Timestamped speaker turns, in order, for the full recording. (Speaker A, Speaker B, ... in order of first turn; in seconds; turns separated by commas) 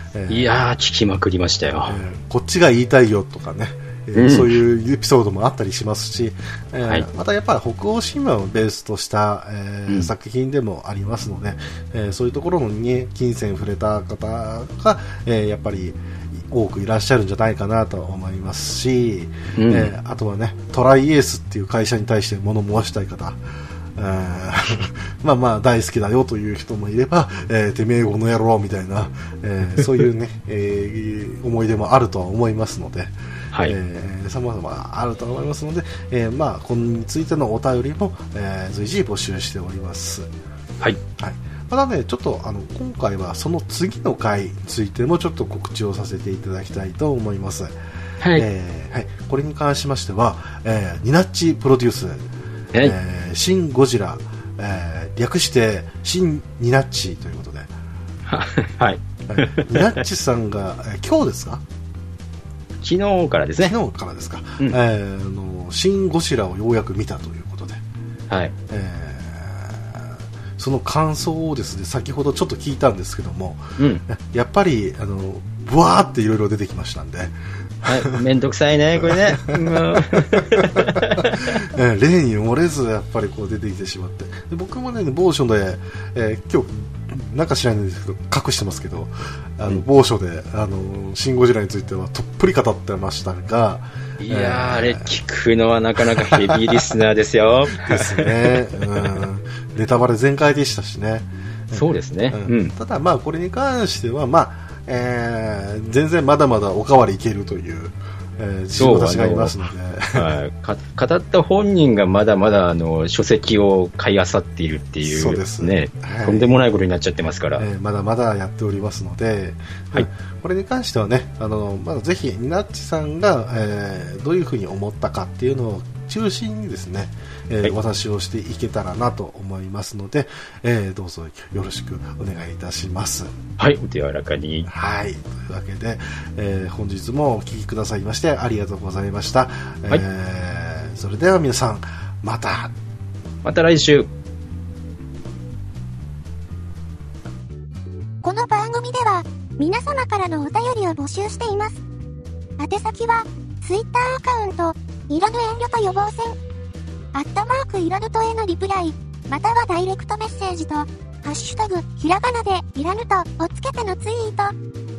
Speaker A: 0.1-0.6, Speaker B: 0.3-2.0, Speaker A: 1.9-23.4, Speaker B: 4.1-4.6, Speaker B: 19.6-19.9, Speaker A: 23.9-40.3, Speaker A: 41.2-47.7, Speaker B: 48.2-48.5, Speaker A: 48.3-57.7, Speaker B: 58.3-60.0, Speaker A: 59.3-61.6, Speaker B: 62.8-63.7, Speaker A: 63.6-67.8, Speaker B: 68.3-68.5, Speaker A: 68.7-78.2, Speaker B: 73.8-74.0, Speaker B: 77.8-81.5, Speaker A: 79.0-95.1, Speaker B: 94.2-99.2, Speaker A: 96.2-96.9, Speaker A: 97.7-110.3, Speaker B: 101.7-102.7, Speaker B: 108.8-109.6, Speaker B: 110.1-117.6, Speaker A: 115.0-116.6, Speaker A: 117.6-133.3, Speaker B: 133.6-134.7, Speaker A: 134.7-142.7, Speaker B: 143.4-144.1, Speaker C: 148.2-151.8, Speaker C: 152.6-156.4, Speaker C: 157.1-164.5